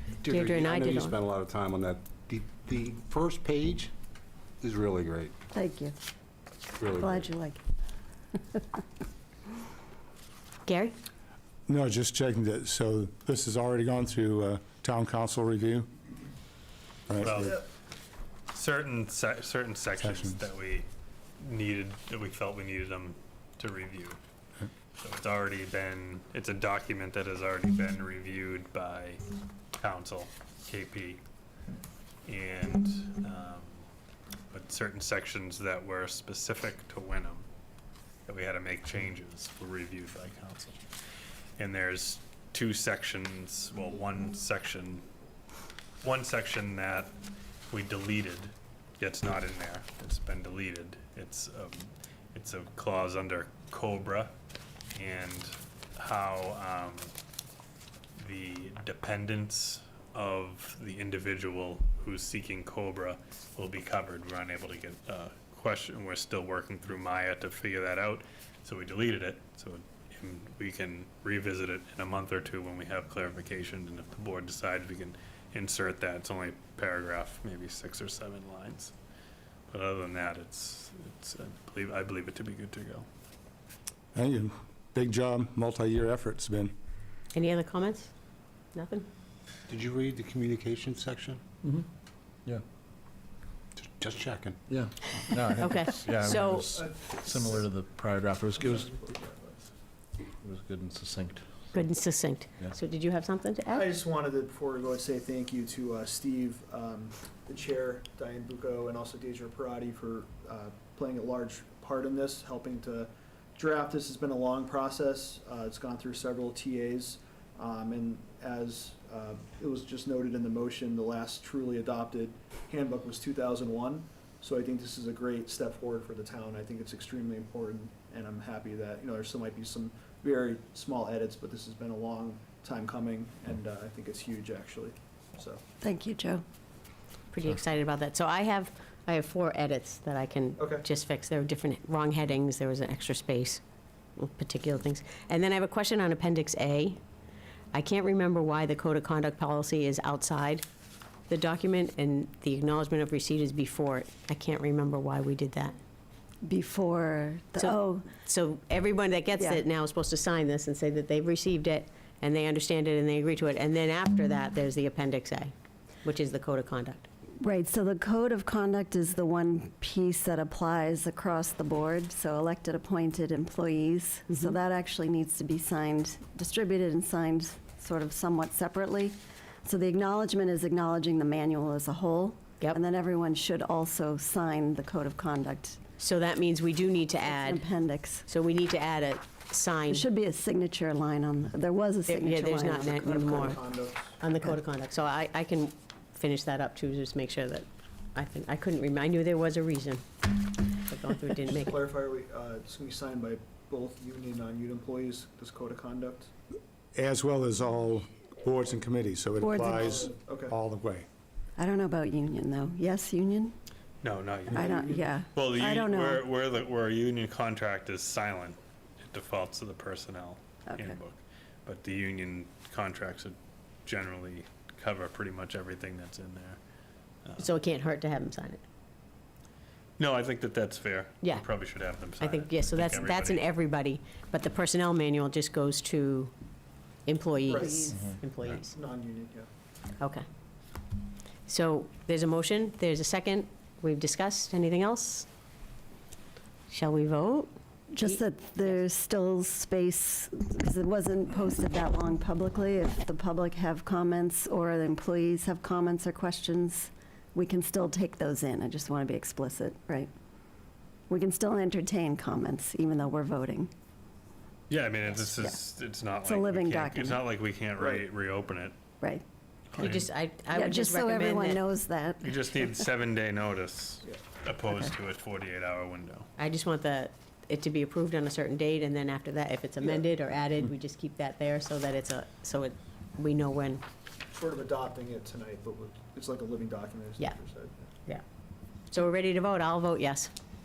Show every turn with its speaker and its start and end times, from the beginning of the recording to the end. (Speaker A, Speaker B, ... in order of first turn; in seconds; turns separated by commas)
Speaker A: 0.2-3.9, Speaker B: 0.2-1.1, Speaker A: 4.6-5.3, Speaker C: 5.5-5.9, Speaker A: 6.8-7.3, Speaker C: 6.9-7.6, Speaker B: 10.7-10.9, Speaker D: 11.7-15.9, Speaker D: 17.1-17.5, Speaker E: 17.2-17.6, Speaker E: 18.5-20.9, Speaker D: 20.0-20.4, Speaker E: 21.4-24.2, Speaker E: 25.0-29.2, Speaker E: 29.8-31.2, Speaker E: 32.2-33.8, Speaker E: 34.5-37.5, Speaker E: 38.3-40.8, Speaker E: 41.6-45.0, Speaker E: 46.0-47.1, Speaker E: 47.7-54.3, Speaker E: 54.9-57.1, Speaker E: 58.2-78.9, Speaker E: 79.7-83.1, Speaker D: 84.1-86.7, Speaker B: 87.3-88.1, Speaker B: 88.7-89.1, Speaker A: 89.7-91.4, Speaker A: 93.8-94.6, Speaker F: 94.7-98.9, Speaker B: 95.5-96.7, Speaker G: 96.8-97.7, Speaker G: 98.6-99.5, Speaker F: 100.4-101.7, Speaker B: 101.7-103.8, Speaker G: 103.7-135.6, Speaker C: 135.8-136.4, Speaker B: 137.3-143.6, Speaker G: 140.6-140.8, Speaker B: 144.2-147.0, Speaker B: 147.7-150.6, Speaker B: 151.3-155.8, Speaker C: 156.4-158.1, Speaker B: 157.6-165.5, Speaker C: 159.3-159.6, Speaker B: 166.0-167.1, Speaker C: 167.4-185.8, Speaker B: 186.0-187.6, Speaker C: 187.2-188.2, Speaker B: 188.3-190.1, Speaker C: 189.9-193.4, Speaker B: 192.1-193.6, Speaker G: 193.1-194.1, Speaker B: 194.2-200.0, Speaker B: 200.8-201.7, Speaker G: 201.4-206.3, Speaker D: 206.9-211.1, Speaker C: 209.4-210.1, Speaker G: 210.2-210.5, Speaker C: 211.6-213.5, Speaker E: 214.0-214.7, Speaker G: 214.5-215.0, Speaker C: 214.5-216.2, Speaker E: 215.3-218.6, Speaker E: 219.1-226.6, Speaker C: 220.7-221.0, Speaker B: 227.4-228.6, Speaker E: 230.0-233.5, Speaker B: 232.2-236.3, Speaker B: 237.1-238.7, Speaker G: 237.5-237.8, Speaker G: 238.7-239.5, Speaker B: 240.0-240.2, Speaker B: 241.5-245.3, Speaker B: 246.7-248.8, Speaker C: 247.9-260.1, Speaker C: 261.1-263.7, Speaker E: 264.7-268.8, Speaker C: 266.2-267.2, Speaker C: 269.7-272.9, Speaker E: 269.8-270.1, Speaker B: 269.8-271.6, Speaker E: 272.2-276.3, Speaker B: 276.4-283.8, Speaker G: 284.3-287.9, Speaker B: 288.9-290.3